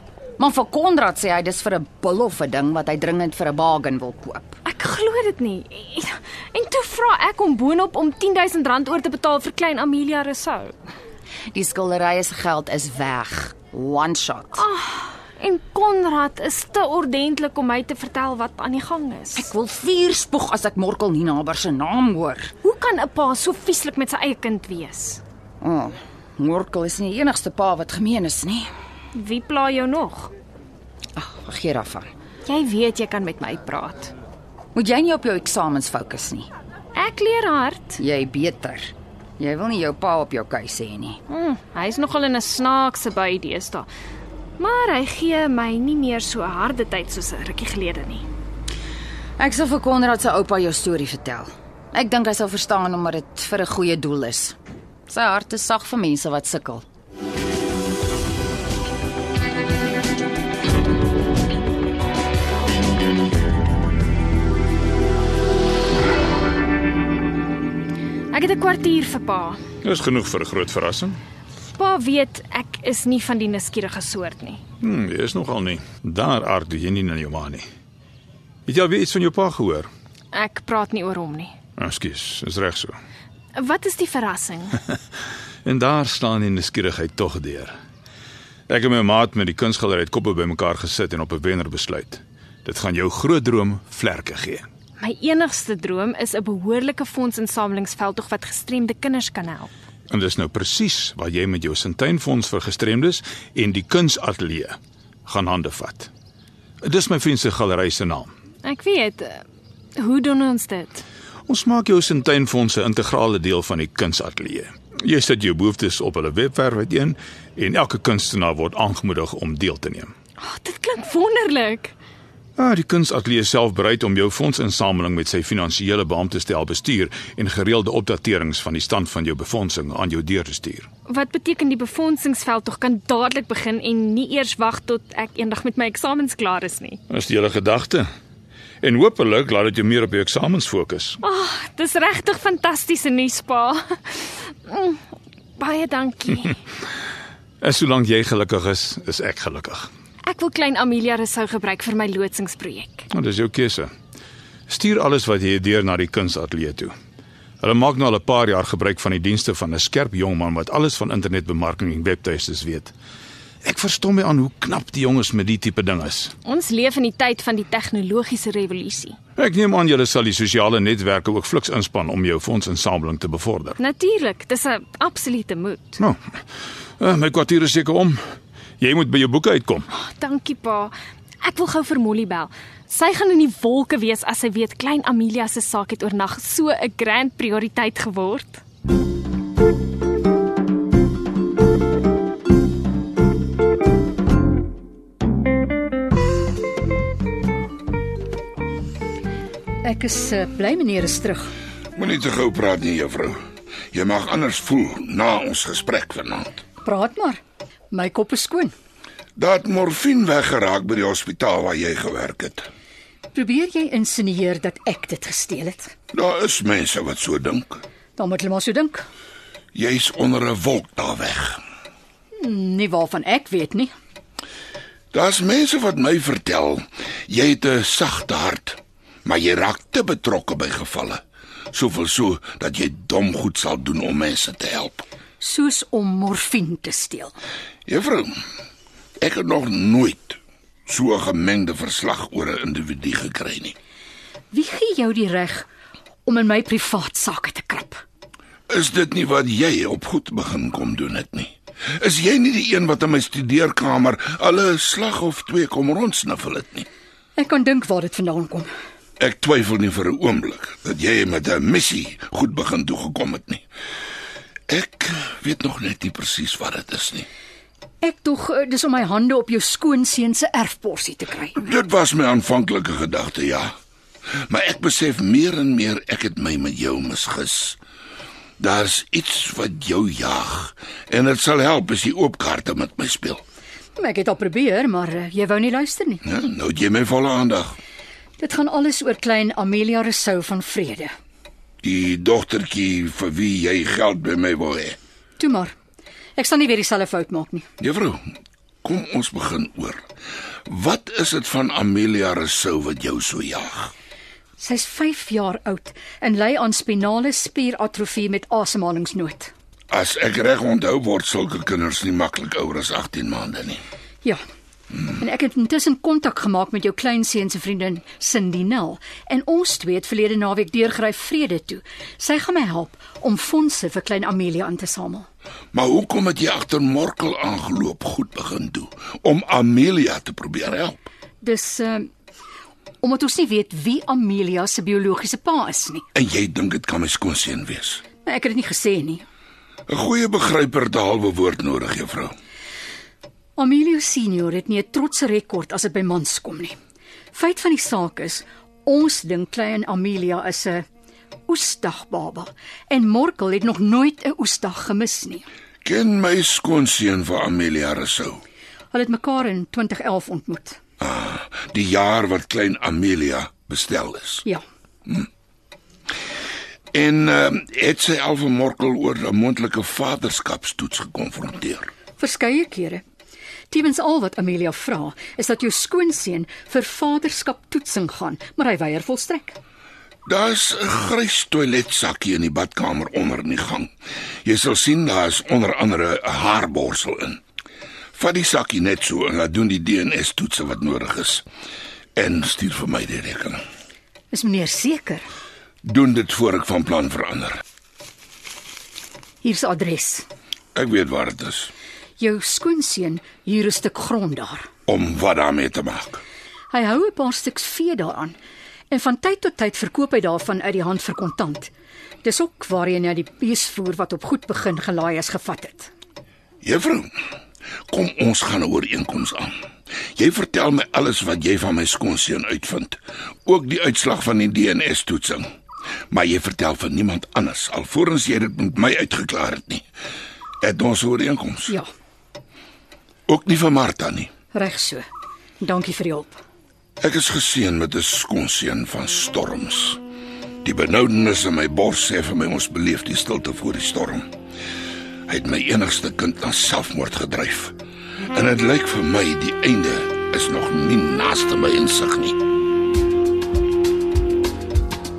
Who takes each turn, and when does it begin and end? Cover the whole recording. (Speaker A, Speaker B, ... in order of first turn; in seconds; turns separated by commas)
Speaker A: 0.4-4.6, Speaker B: 4.7-10.7, Speaker A: 11.5-14.6, Speaker B: 14.5-19.5, Speaker A: 19.4-22.5, Speaker B: 22.6-25.2, Speaker A: 25.6-28.7, Speaker B: 29.1-30.3, Speaker A: 31.1-32.1, Speaker B: 32.5-34.1, Speaker A: 34.7-36.5, Speaker B: 37.0-38.0, Speaker A: 38.0-41.2, Speaker B: 41.3-43.9, Speaker B: 44.6-48.2, Speaker A: 49.4-54.5, Speaker A: 55.1-56.8, Speaker B: 68.3-69.6, Speaker C: 69.8-71.2, Speaker B: 71.7-74.6, Speaker C: 74.8-77.6, Speaker C: 78.7-79.9, Speaker B: 80.3-81.5, Speaker C: 81.8-82.9, Speaker B: 83.6-84.8, Speaker C: 85.6-87.7, Speaker C: 88.7-94.7, Speaker B: 95.0-99.7, Speaker C: 100.1-106.1, Speaker C: 106.8-108.3, Speaker B: 108.6-109.4, Speaker B: 110.0-111.0, Speaker C: 111.5-120.1, Speaker B: 120.4-121.9, Speaker C: 122.6-130.9, Speaker B: 131.1-137.0, Speaker C: 137.1-138.0, Speaker C: 138.8-141.2, Speaker B: 141.2-145.0, Speaker B: 145.6-146.6, Speaker C: 147.6-149.9, Speaker B: 150.2-153.1, Speaker C: 153.1-153.9, Speaker C: 154.7-156.9, Speaker C: 157.6-162.9, Speaker C: 163.6-166.3, Speaker B: 166.4-169.2, Speaker C: 169.4-173.8, Speaker B: 173.8-176.0, Speaker C: 177.0-178.2, Speaker C: 178.8-179.8, Speaker B: 179.9-188.6, Speaker D: 199.8-201.5, Speaker E: 202.0-203.3, Speaker E: 203.9-206.6, Speaker D: 206.8-208.7, Speaker E: 209.4-212.7, Speaker D: 213.3-215.9, Speaker E: 216.1-217.8, Speaker D: 218.2-219.0, Speaker E: 219.7-221.6, Speaker D: 222.4-223.9, Speaker E: 225.1-231.2, Speaker E: 231.7-235.0, Speaker D: 235.4-237.3, Speaker E: 237.9-238.3, Speaker E: 239.2-243.7, Speaker D: 244.5-245.7, Speaker D: 246.2-248.0, Speaker E: 248.7-256.9, Speaker D: 257.4-258.7, Speaker E: 259.2-263.6, Speaker E: 264.7-267.3, Speaker D: 268.0-271.6, Speaker E: 271.6-273.7, Speaker E: 274.5-277.8, Speaker E: 278.6-283.4, Speaker D: 283.9-286.2, Speaker E: 286.2-287.7, Speaker D: 288.4-291.1, Speaker E: 291.8-295.0, Speaker D: 295.4-295.7, Speaker D: 296.4-297.6, Speaker E: 297.8-298.2, Speaker E: 298.8-300.0, Speaker E: 300.7-303.9, Speaker D: 304.6-309.5, Speaker E: 309.9-313.8, Speaker D: 315.1-325.2, Speaker E: 325.7-331.1, Speaker D: 331.4-332.1, Speaker D: 333.0-336.0, Speaker E: 336.1-338.0, Speaker D: 338.2-339.2, Speaker E: 339.9-342.3, Speaker D: 343.6-346.7, Speaker D: 347.3-350.9, Speaker D: 351.5-355.4, Speaker E: 355.8-358.4, Speaker D: 358.9-360.8, Speaker E: 361.0-364.4, Speaker E: 366.9-371.9, Speaker D: 372.2-373.0, Speaker D: 373.7-379.6, Speaker E: 380.3-383.9, Speaker E: 384.4-387.4, Speaker E: 388.2-391.4, Speaker E: 392.1-393.6, Speaker D: 394.3-395.2, Speaker E: 395.8-397.6, Speaker D: 399.4-400.2, Speaker E: 400.7-401.7, Speaker D: 402.2-404.7, Speaker E: 404.9-406.2, Speaker D: 406.7-408.3, Speaker D: 408.9-411.7, Speaker D: 412.2-415.9, Speaker E: 416.6-417.1, Speaker E: 417.9-419.5, Speaker E: 420.2-425.4, Speaker E: 426.1-429.8, Speaker E: 430.6-431.7, Speaker E: 433.3-434.3, Speaker D: 434.5-435.0, Speaker D: 435.6-436.4, Speaker E: 437.0-440.0, Speaker E: 440.6-444.2, Speaker E: 445.3-447.7, Speaker E: 448.3-452.4